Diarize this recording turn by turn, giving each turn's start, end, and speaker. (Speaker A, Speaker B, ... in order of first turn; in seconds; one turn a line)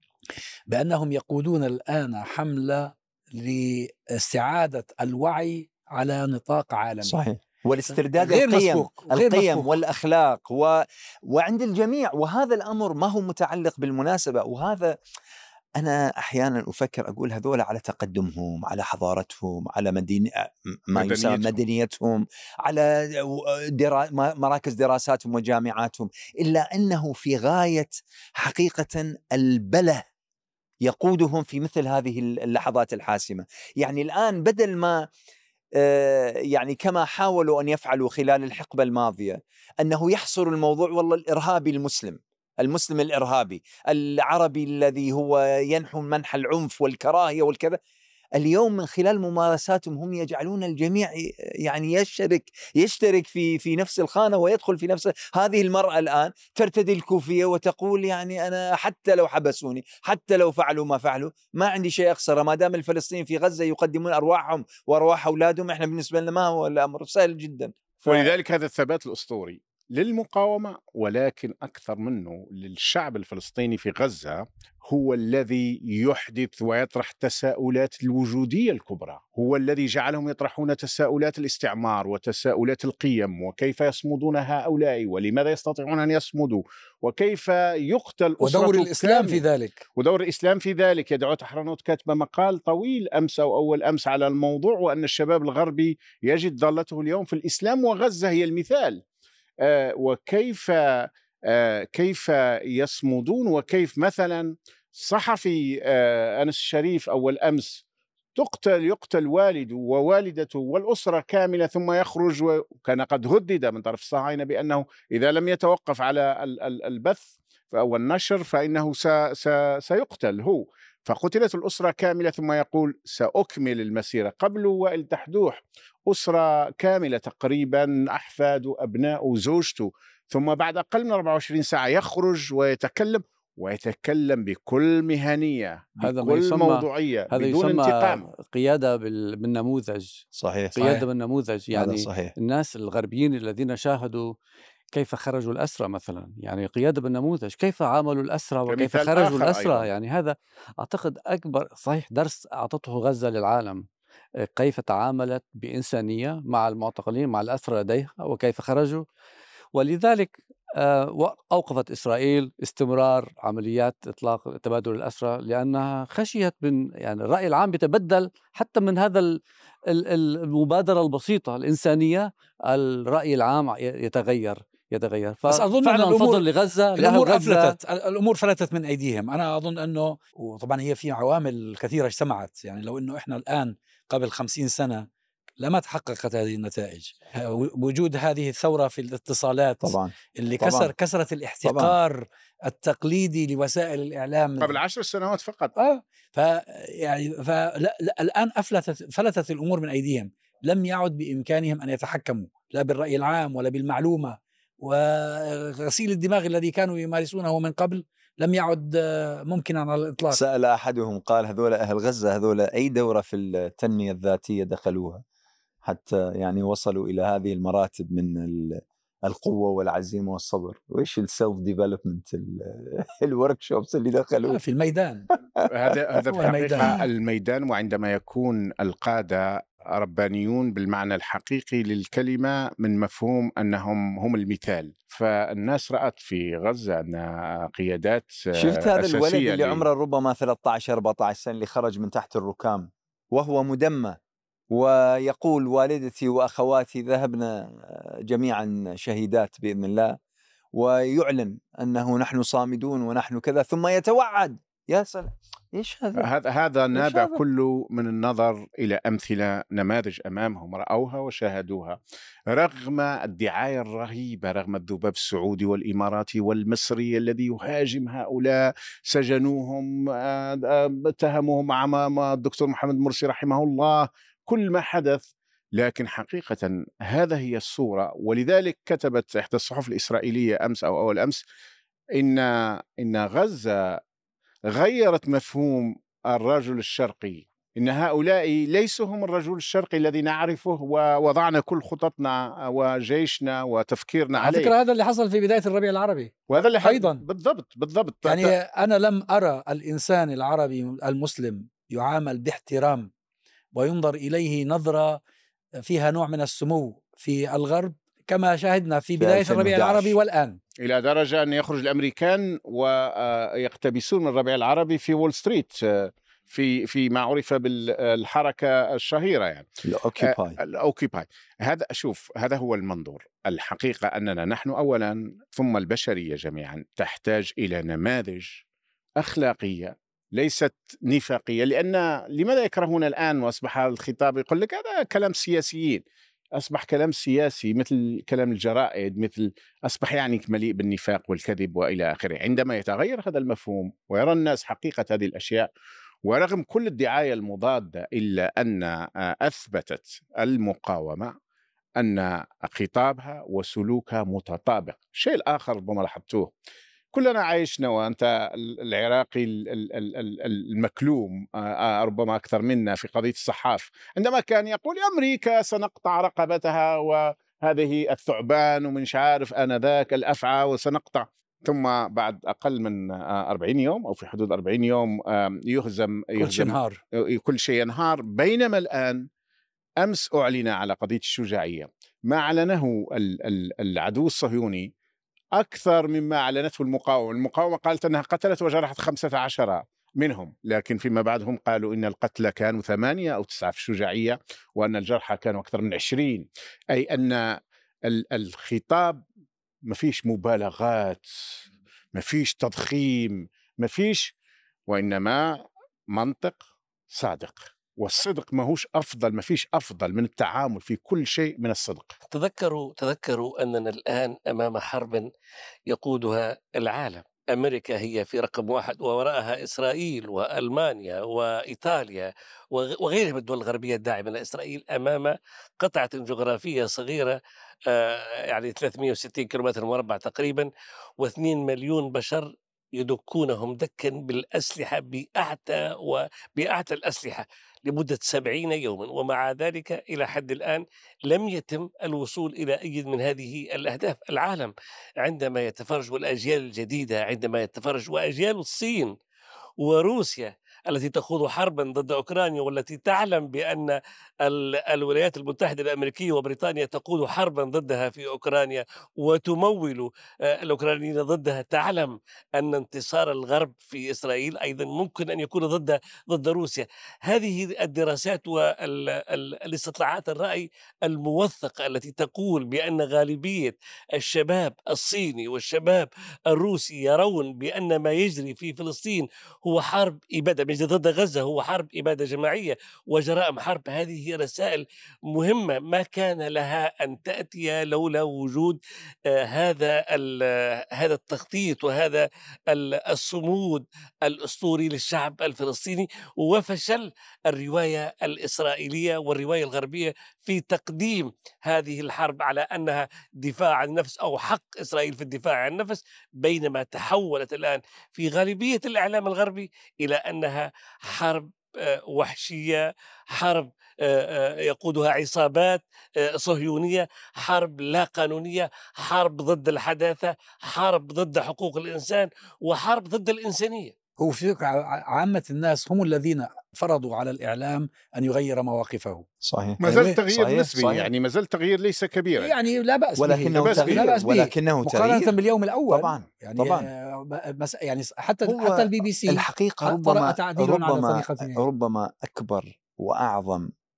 Speaker A: 0.7-7.2
Speaker B: 7.0-15.0
Speaker A: 8.2-9.7
Speaker B: 15.8-30.1
Speaker C: 20.9-21.6
Speaker B: 30.8-35.1
Speaker B: 35.8-47.8
Speaker B: 48.4-68.3
Speaker C: 68.1-89.5
Speaker A: 88.4-89.8
Speaker C: 90.0-99.0
Speaker C: 99.6-107.8
Speaker C: 108.4-138.3
Speaker D: 136.0-140.2
Speaker B: 140.4-141.1
Speaker D: 140.8-144.3
Speaker B: 141.8-142.3
Speaker D: 144.9-153.8
Speaker C: 148.7-149.9
Speaker D: 154.5-159.1
Speaker D: 159.8-169.4
Speaker D: 169.9-177.8
Speaker A: 175.5-185.1
Speaker A: 185.6-194.8
Speaker B: 189.8-190.9
Speaker B: 191.6-192.0
Speaker C: 194.6-195.7
Speaker A: 195.8-210.4
Speaker B: 210.3-215.2
Speaker B: 215.8-224.6
Speaker A: 224.5-225.3
Speaker B: 225.6-227.0
Speaker C: 225.7-239.9
Speaker A: 226.3-227.0
Speaker B: 238.6-244.2
Speaker B: 244.7-250.2
Speaker B: 250.7-256.3
Speaker C: 256.2-262.0
Speaker B: 256.9-257.4
Speaker C: 262.5-275.2
Speaker C: 275.8-281.4
Speaker C: 282.2-284.0
Speaker C: 284.7-294.7
Speaker A: 294.4-297.2
Speaker C: 296.5-298.6
Speaker A: 298.2-303.1
Speaker A: 303.7-305.2
Speaker A: 305.8-310.6
Speaker B: 309.2-310.2
Speaker C: 310.8-319.7
Speaker B: 319.8-320.6
Speaker C: 320.2-328.6
Speaker C: 329.2-336.0
Speaker C: 336.6-345.7
Speaker C: 346.3-351.3
Speaker C: 352.0-356.5
Speaker C: 357.1-379.3
Speaker A: 376.4-377.0
Speaker C: 380.0-384.9
Speaker C: 385.6-399.2
Speaker C: 399.9-401.3
Speaker C: 402.1-404.3
Speaker C: 404.9-406.6
Speaker C: 407.1-412.1
Speaker E: 412.3-415.3
Speaker E: 415.9-427.4
Speaker E: 427.9-449.1
Speaker E: 449.8-523.9
Speaker A: 524.2-529.3
Speaker B: 529.4-531.1
Speaker C: 529.8-532.5
Speaker A: 529.9-530.2
Speaker A: 532.4-541.6
Speaker B: 533.2-535.4
Speaker C: 533.5-534.2
Speaker B: 535.9-536.9
Speaker B: 538.5-543.7